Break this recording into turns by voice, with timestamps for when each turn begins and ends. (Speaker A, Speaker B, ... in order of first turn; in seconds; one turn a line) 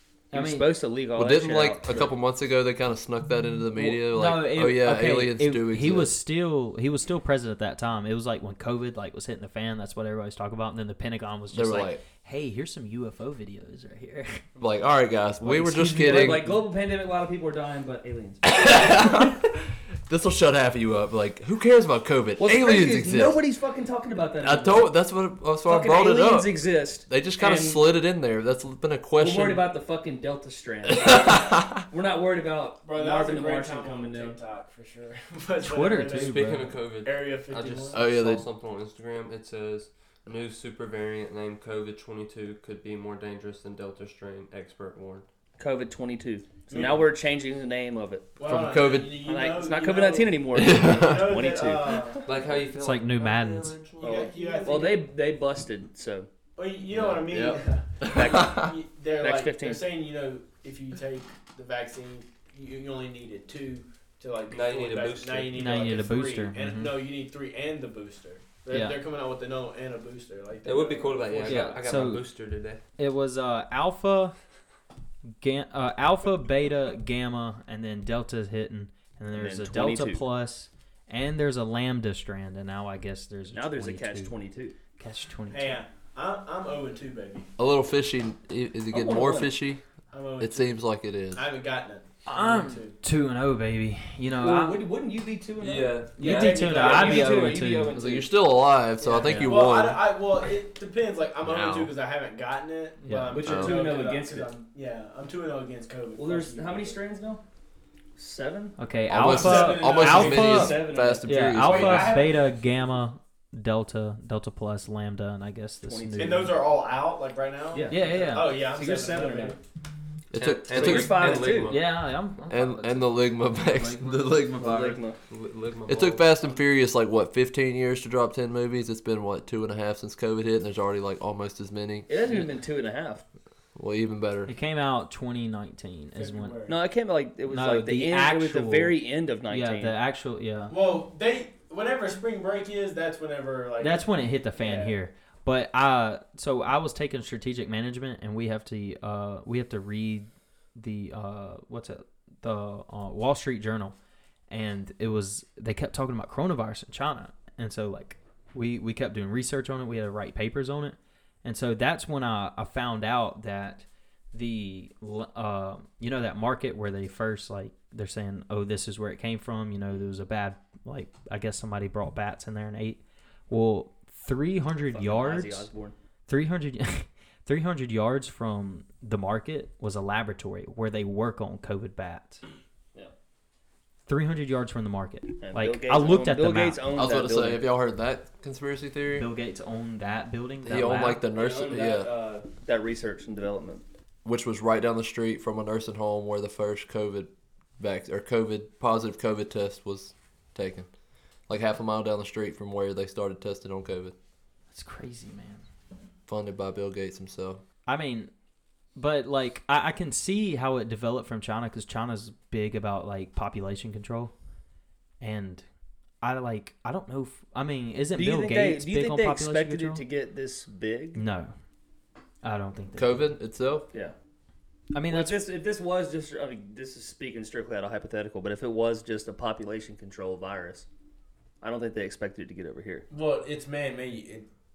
Speaker A: 0.3-0.7
Speaker B: 0.3-2.1
Speaker C: 1.1-6.2
Speaker A: 3.7-14.4
Speaker C: 11.5-12.0
Speaker C: 14.6-16.5
Speaker A: 15.4-16.6
Speaker B: 15.9-18.6
Speaker C: 18.4-23.4
Speaker B: 22.4-24.9
Speaker C: 24.4-29.6
Speaker B: 25.6-27.8
Speaker B: 29.2-34.4
Speaker C: 30.9-31.8
Speaker D: 32.8-38.0
Speaker A: 35.6-36.7
Speaker E: 36.1-45.2
Speaker C: 37.9-38.5
Speaker B: 45.6-48.4
Speaker D: 46.7-47.1
Speaker D: 48.4-52.6
Speaker C: 48.4-49.2
Speaker B: 49.2-52.3
Speaker C: 50.5-51.5
Speaker E: 52.2-54.6
Speaker A: 52.7-53.8
Speaker B: 54.0-56.3
Speaker D: 54.0-55.1
Speaker D: 56.5-71.8
Speaker E: 56.9-57.2
Speaker C: 57.2-58.7
Speaker B: 58.1-58.6
Speaker B: 59.2-59.9
Speaker E: 64.5-65.7
Speaker A: 65.5-67.0
Speaker A: 68.7-69.0
Speaker E: 70.6-72.8
Speaker A: 71.5-72.2
Speaker A: 73.0-74.3
Speaker A: 75.4-84.3
Speaker B: 79.3-80.2
Speaker B: 83.5-84.7
Speaker A: 85.0-85.8
Speaker D: 85.5-87.5
Speaker C: 87.6-89.8
Speaker B: 88.9-89.5
Speaker D: 90.1-90.8
Speaker C: 90.4-91.5
Speaker D: 91.3-92.9
Speaker A: 92.2-94.8
Speaker B: 94.3-98.3
Speaker E: 95.6-96.7
Speaker A: 96.2-97.9
Speaker D: 96.2-97.5
Speaker C: 97.9-100.0
Speaker D: 99.0-107.0
Speaker A: 99.2-99.5
Speaker C: 101.4-101.9
Speaker A: 103.0-103.4
Speaker B: 103.3-104.5
Speaker C: 103.4-103.8
Speaker B: 106.2-107.4
Speaker B: 108.2-108.8
Speaker A: 108.8-116.5
Speaker C: 109.1-112.2
Speaker D: 109.2-112.4
Speaker B: 110.5-111.0
Speaker B: 115.8-116.5
Speaker D: 116.2-119.6
Speaker B: 117.7-119.6
Speaker A: 117.9-118.5
Speaker C: 120.3-121.4
Speaker E: 120.3-121.9
Speaker B: 120.7-121.8
Speaker A: 121.4-123.2
Speaker C: 122.5-125.0
Speaker E: 123.5-126.6
Speaker B: 124.6-125.2
Speaker C: 125.9-132.1
Speaker B: 132.1-133.2
Speaker C: 133.8-134.5
Speaker A: 134.4-136.6
Speaker D: 136.2-136.8
Speaker B: 136.7-139.9
Speaker A: 137.5-140.7
Speaker D: 140.7-144.9
Speaker A: 143.8-153.9
Speaker A: 154.5-175.7
Speaker B: 174.9-175.9
Speaker A: 176.3-182.4
Speaker A: 184.1-186.8
Speaker B: 185.4-187.6
Speaker C: 186.9-189.3
Speaker A: 189.1-191.2
Speaker C: 190.6-192.1
Speaker B: 191.2-193.8
Speaker C: 194.2-200.9
Speaker C: 201.5-204.1
Speaker A: 204.7-205.6
Speaker C: 206.3-207.6
Speaker A: 207.8-208.3
Speaker A: 209.0-214.3
Speaker A: 215.2-215.6
Speaker A: 216.2-220.0
Speaker B: 218.1-221.2
Speaker A: 221.1-221.5
Speaker A: 222.4-223.3
Speaker C: 222.9-223.9
Speaker A: 224.9-225.4
Speaker B: 225.1-230.8
Speaker B: 231.6-233.1
Speaker D: 233.1-234.5